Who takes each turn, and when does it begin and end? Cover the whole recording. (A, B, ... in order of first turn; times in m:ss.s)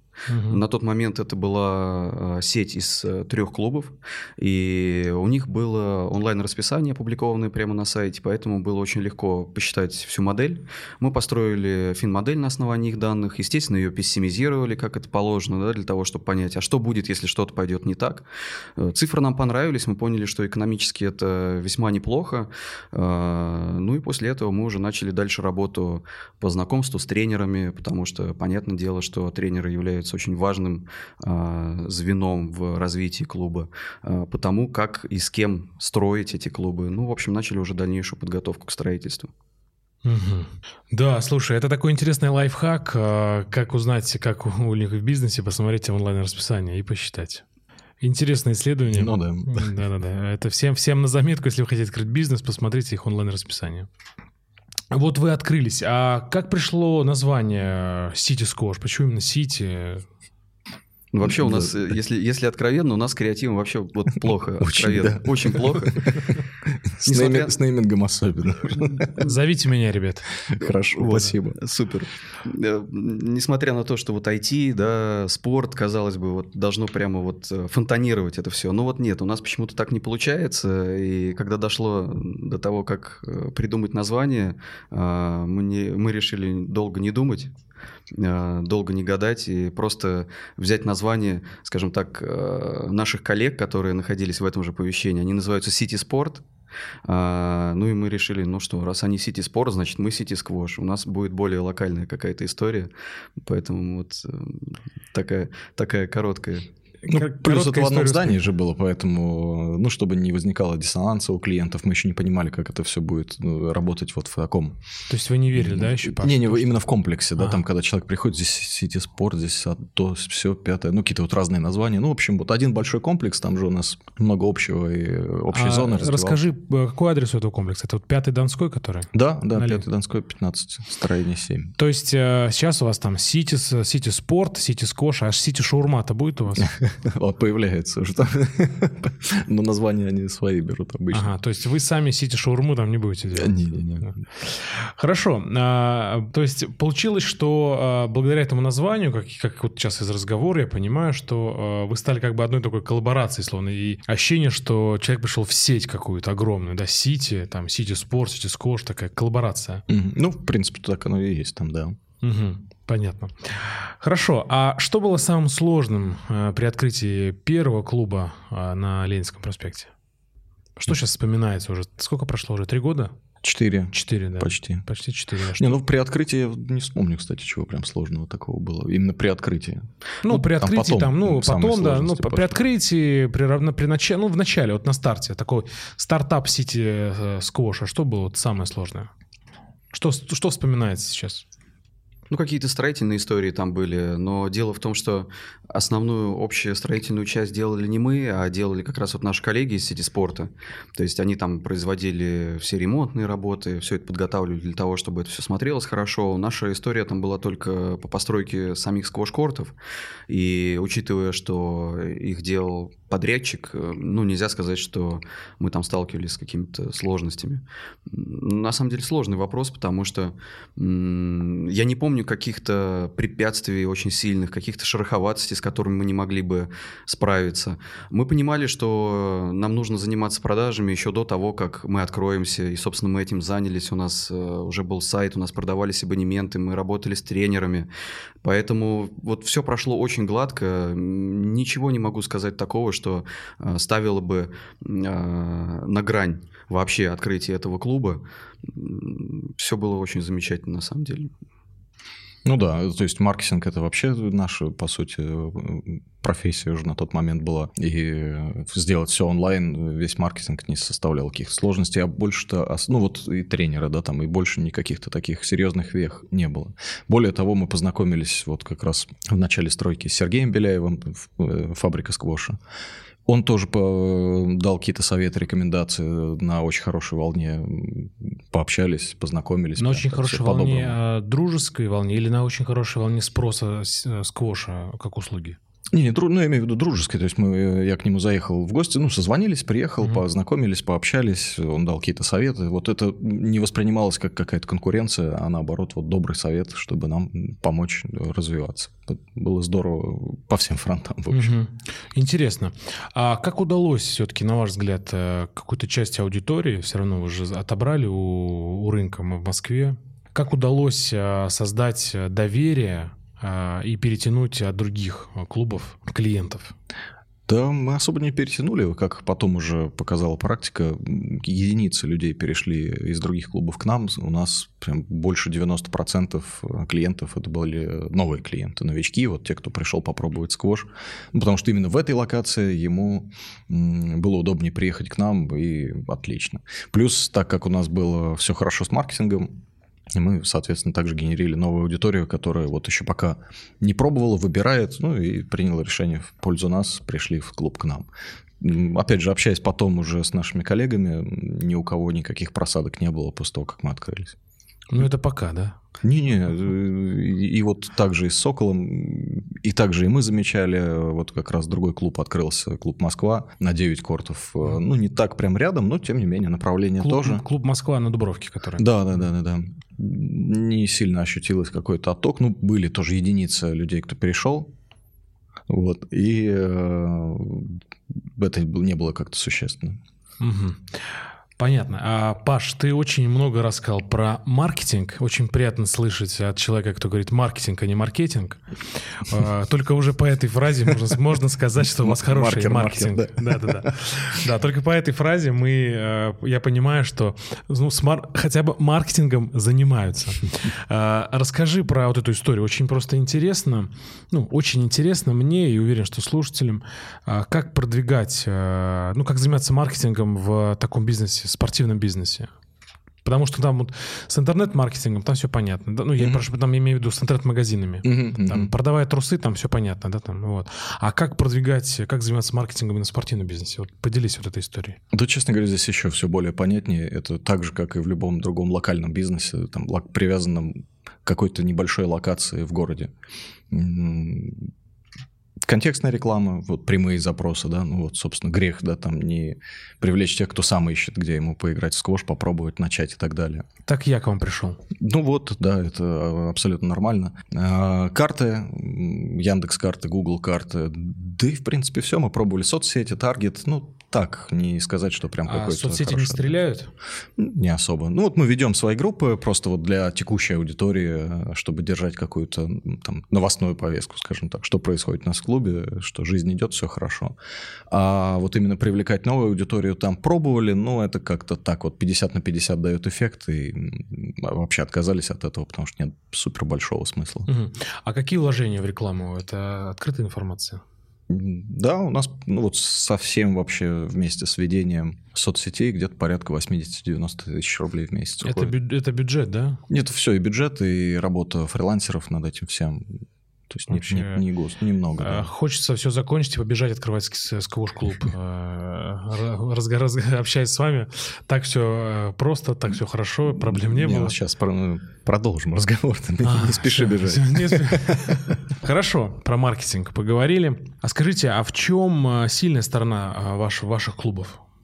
0:00.3-0:00.6 A
0:00.5-0:18.2 B
0:18.8-0:39.3 B
0:40.0-0:47.4 A
0:48.0-0:53.9 A
0:48.9-0:49.7 C
0:54.9-1:00.0 A
1:01.1-1:06.0 B
1:01.2-1:01.7 C
1:04.6-1:09.3 C
1:07.1-1:07.5 B
1:09.1-1:10.3 A
1:10.4-1:11.6 C
1:11.0-1:27.5 B
1:28.1-1:36.4 B
1:37.0-1:46.7 B
1:47.0-1:48.4 A
1:47.1-1:54.8 C
1:55.1-1:56.8 A
1:55.5-2:06.4 C
1:57.4-1:57.6 A
2:05.5-2:09.8 A
2:09.1-2:11.7 C
2:11.8-2:16.7 A
2:16.6-2:21.3 C
2:21.1-2:23.6 A
2:23.3-2:24.1 C
2:24.4-2:39.8 A
2:39.9-2:42.0 C
2:42.2-2:49.9 A
2:50.8-2:53.1 A
2:53.4-2:54.8 C
2:53.9-2:55.8 A
2:55.6-3:02.6 C
3:00.2-3:09.1 A
3:09.9-3:11.4 A
3:12.3-3:29.7 B
3:30.3-3:57.9 B
3:58.4-4:11.3 B
4:12.4-4:32.6 C
4:33.2-4:41.0 C
4:39.8-4:45.6 A
4:45.9-5:01.5 C
5:01.3-5:16.7 A
5:17.5-5:39.6 C
5:40.1-5:48.1 C
5:48.6-5:54.4 C
5:54.9-5:55.8 A
5:56.0-6:07.4 C
6:07.0-6:08.9 A
6:08.8-6:14.7 C
6:15.7-6:20.0 C
6:20.4-6:21.0 A
6:21.6-6:52.5 A
6:32.0-6:33.9 C
6:53.2-7:05.0 A
6:58.0-6:58.7 C
7:05.1-7:13.1 C
7:13.7-7:14.7 C
7:15.6-7:23.6 C
7:23.8-7:24.8 A
7:25.0-7:36.6 C
7:35.4-7:36.9 A
7:37.4-7:47.3 C
7:47.9-7:57.5 C
7:57.5-8:00.8 A
8:01.3-8:08.7 C
8:08.4-8:09.8 A
8:09.9-8:15.5 C
8:13.9-8:14.4 A
8:15.2-8:24.4 A
8:23.5-8:28.5 C
8:26.4-8:34.6 A